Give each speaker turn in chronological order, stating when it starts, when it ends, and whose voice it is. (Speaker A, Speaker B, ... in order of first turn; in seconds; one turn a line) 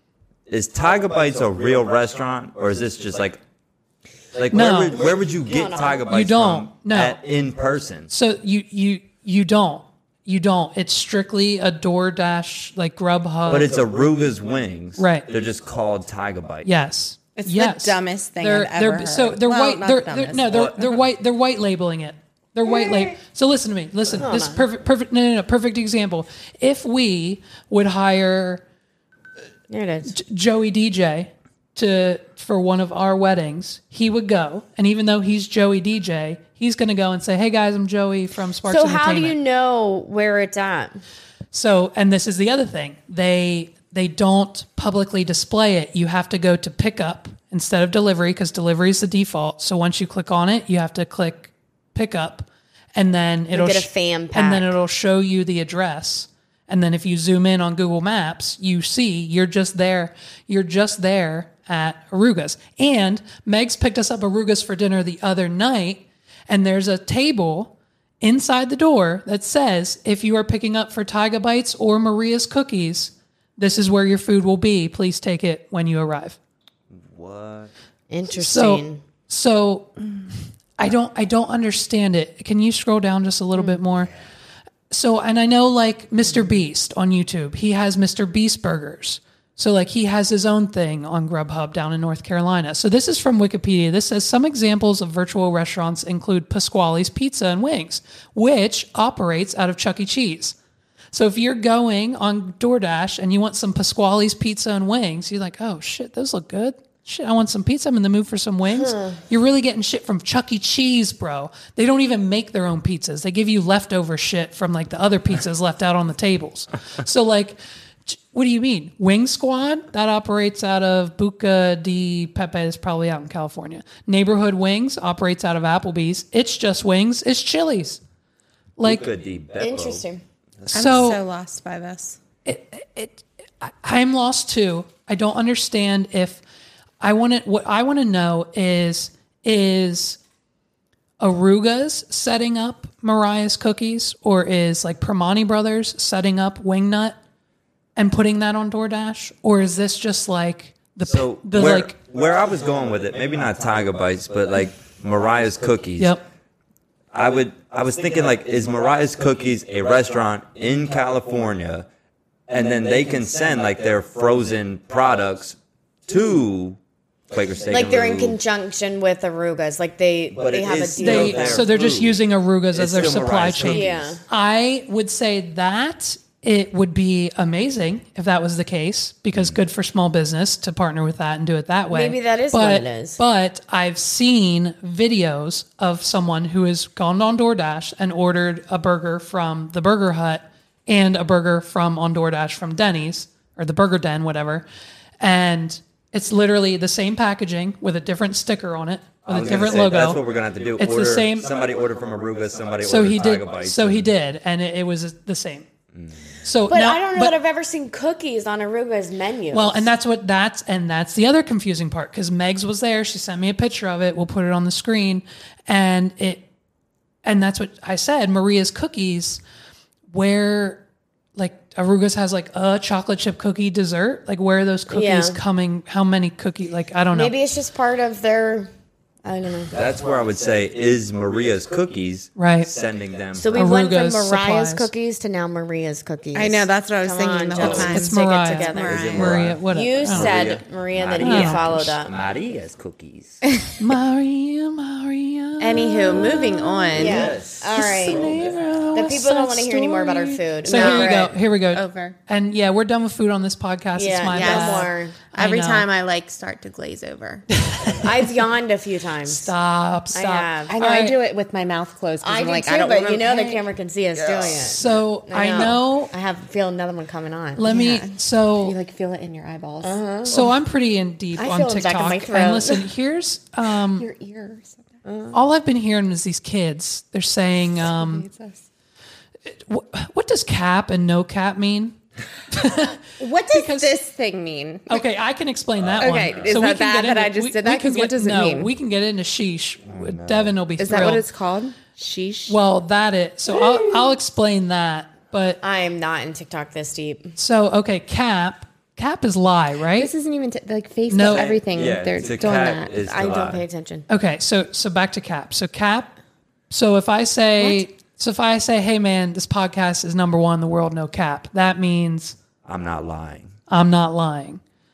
Speaker A: 0.5-3.4
Speaker A: 4.3-8.1
Speaker B: 4.5-5.0
Speaker C: 5.0-6.0
Speaker B: 6.1-7.2
Speaker B: 8.1-13.8
Speaker A: 13.5-16.7
Speaker B: 15.0-15.3
Speaker B: 16.6-28.6
Speaker D: 17.4-20.7
Speaker A: 20.5-20.9
Speaker C: 22.8-23.1
Speaker C: 24.1-24.6
Speaker C: 29.7-30.1
Speaker B: 30.1-39.4
Speaker C: 38.7-41.0
Speaker B: 41.5-76.4
Speaker C: 53.5-54.7
Speaker A: 76.9-77.7
Speaker C: 78.1-79.0
Speaker B: 78.3-80.0
Speaker B: 80.8-84.1
Speaker B: 84.9-100.6
Speaker B: 101.1-128.0
Speaker C: 108.7-109.2
Speaker B: 128.8-129.1
Speaker A: 128.8-130.0
Speaker C: 129.6-130.2
Speaker B: 130.7-131.2
Speaker D: 130.7-132.2
Speaker B: 132.4-136.4
Speaker B: 137.0-140.2
Speaker B: 141.2-147.2
Speaker B: 148.0-152.0
Speaker A: 151.1-156.2
Speaker B: 156.0-156.2
Speaker A: 157.1-161.9
Speaker A: 162.5-165.6
Speaker A: 166.1-166.8
Speaker A: 167.3-168.4
Speaker C: 167.7-171.7
Speaker A: 170.3-172.2
Speaker B: 171.0-194.7
Speaker A: 172.7-174.2
Speaker C: 173.6-174.2
Speaker C: 181.9-183.2
Speaker B: 195.2-200.2
Speaker A: 199.3-204.1
Speaker B: 200.8-201.5
Speaker B: 202.8-205.7
Speaker B: 206.4-207.4
Speaker C: 206.7-209.9
Speaker B: 209.5-216.4
Speaker B: 217.2-219.4
Speaker B: 220.1-220.8
Speaker B: 221.4-227.3
Speaker C: 224.9-225.4
Speaker C: 227.1-228.7
Speaker C: 229.2-229.7
Speaker A: 229.7-233.7
Speaker B: 232.4-232.7
Speaker C: 233.4-242.1
Speaker B: 233.5-234.9
Speaker D: 236.3-239.4
Speaker A: 237.6-238.0
Speaker B: 237.8-240.3
Speaker A: 238.8-243.4
Speaker B: 241.2-241.9
Speaker B: 243.8-247.0
Speaker D: 245.6-247.3
Speaker C: 246.9-248.3
Speaker A: 246.9-248.8
Speaker B: 247.8-255.9
Speaker C: 248.9-251.3
Speaker D: 250.7-251.2
Speaker D: 251.7-252.2
Speaker C: 254.0-255.2
Speaker D: 254.3-257.5
Speaker B: 257.6-258.1
Speaker C: 258.0-259.5
Speaker B: 259.3-261.2
Speaker C: 260.1-260.7
Speaker D: 260.7-263.7
Speaker C: 262.2-267.7
Speaker B: 264.6-266.1
Speaker B: 267.6-268.8
Speaker D: 267.6-270.5
Speaker C: 269.8-270.5
Speaker B: 270.3-274.1
Speaker C: 271.4-272.9
Speaker D: 273.9-274.9
Speaker C: 275.1-275.4
Speaker B: 275.3-278.3
Speaker D: 277.8-278.6
Speaker B: 279.5-282.0
Speaker B: 282.5-284.0
Speaker D: 283.2-285.0
Speaker B: 284.9-291.2
Speaker A: 285.8-286.6
Speaker D: 286.0-288.7
Speaker A: 289.9-290.5
Speaker D: 290.8-292.6
Speaker B: 292.5-295.6
Speaker C: 295.6-297.4
Speaker B: 297.4-300.1
Speaker D: 300.0-303.0
Speaker B: 301.1-301.5
Speaker A: 301.3-303.6
Speaker C: 303.0-304.1
Speaker B: 304.1-306.1
Speaker B: 306.7-312.4
Speaker D: 307.6-307.8
Speaker A: 312.6-313.5
Speaker B: 313.7-314.6